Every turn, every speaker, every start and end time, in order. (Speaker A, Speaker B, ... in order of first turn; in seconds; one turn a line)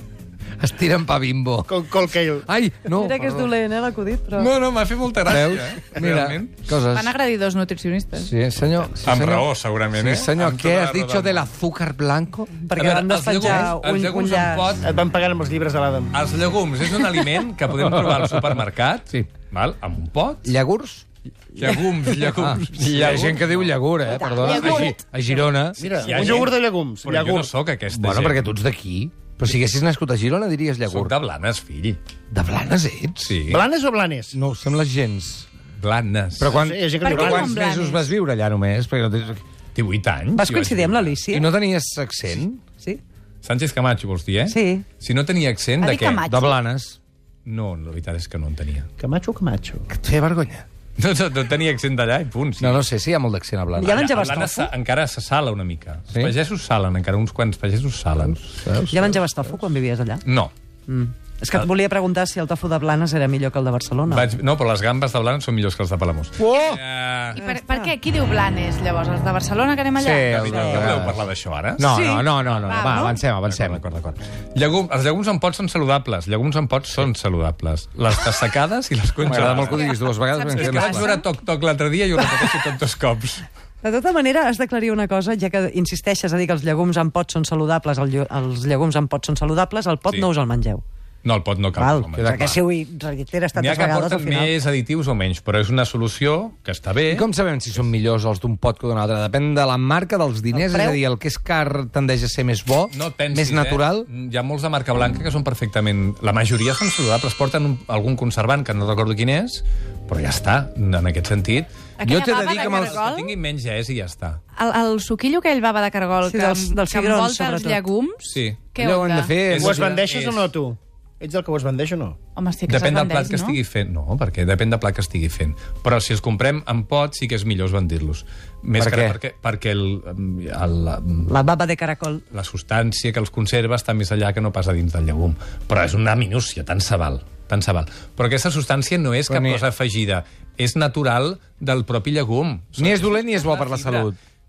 Speaker A: 0.6-1.8
Speaker B: 1.7-2.5
Speaker A: 2.5-3.5
Speaker C: 2.9-4.5
Speaker D: 4.3-6.7
Speaker A: 5.2-7.1
Speaker E: 6.9-8.3
Speaker A: 8.2-12.5
Speaker D: 9.0-11.5
Speaker C: 12.6-14.7
Speaker D: 12.7-14.8
Speaker B: 14.8-16.1
Speaker D: 16.1-20.5
Speaker A: 17.8-18.5
Speaker A: 20.4-21.0
Speaker D: 21.6-23.8
Speaker A: 22.3-25.8
Speaker C: 24.1-25.0
Speaker B: 25.8-27.5
Speaker D: 25.9-28.5
Speaker A: 27.9-31.1
Speaker D: 30.9-32.0
Speaker A: 32.3-33.4
Speaker D: 33.2-33.6
Speaker B: 33.5-34.3
Speaker A: 34.3-35.5
Speaker D: 35.8-36.6
Speaker A: 36.4-39.4
Speaker B: 36.5-37.6
Speaker E: 37.0-38.1
Speaker D: 39.7-41.2
Speaker C: 40.4-41.5
Speaker A: 41.3-42.6
Speaker D: 43.4-46.2
Speaker C: 44.5-44.9
Speaker E: 45.8-46.6
Speaker A: 46.2-47.0
Speaker D: 47.4-48.9
Speaker B: 49.0-49.9
Speaker A: 49.9-50.6
Speaker D: 51.0-52.8
Speaker A: 52.6-53.9
Speaker C: 53.8-54.7
Speaker D: 53.9-58.4
Speaker A: 58.2-59.3
Speaker C: 58.9-60.2
Speaker D: 60.2-60.5
Speaker C: 60.9-64.3
Speaker D: 64.1-67.4
Speaker A: 66.4-66.8
Speaker E: 67.3-70.9
Speaker C: 67.4-67.9
Speaker A: 70.0-71.2
Speaker D: 70.3-79.9
Speaker C: 70.5-70.9
Speaker A: 71.8-73.8
Speaker C: 71.8-72.3
Speaker E: 72.6-73.2
Speaker A: 79.2-81.1
Speaker E: 79.5-81.3
Speaker D: 80.5-83.5
Speaker C: 83.8-90.8
Speaker D: 91.2-92.6
Speaker C: 91.8-94.5
Speaker A: 92.2-92.6
Speaker D: 93.5-97.3
Speaker A: 97.1-104.1
Speaker C: 100.5-101.0
Speaker D: 102.9-111.7
Speaker E: 112.0-113.3
Speaker A: 112.0-113.0
Speaker D: 112.4-114.4
Speaker E: 114.5-119.3
Speaker C: 116.3-117.8
Speaker D: 118.3-118.6
Speaker A: 118.8-119.9
Speaker D: 119.4-120.5
Speaker B: 119.6-122.2
Speaker E: 122.3-123.6
Speaker D: 122.7-131.3
Speaker A: 128.8-129.2
Speaker C: 131.2-132.2
Speaker D: 132.3-144.1
Speaker A: 139.3-139.7
Speaker A: 142.8-144.2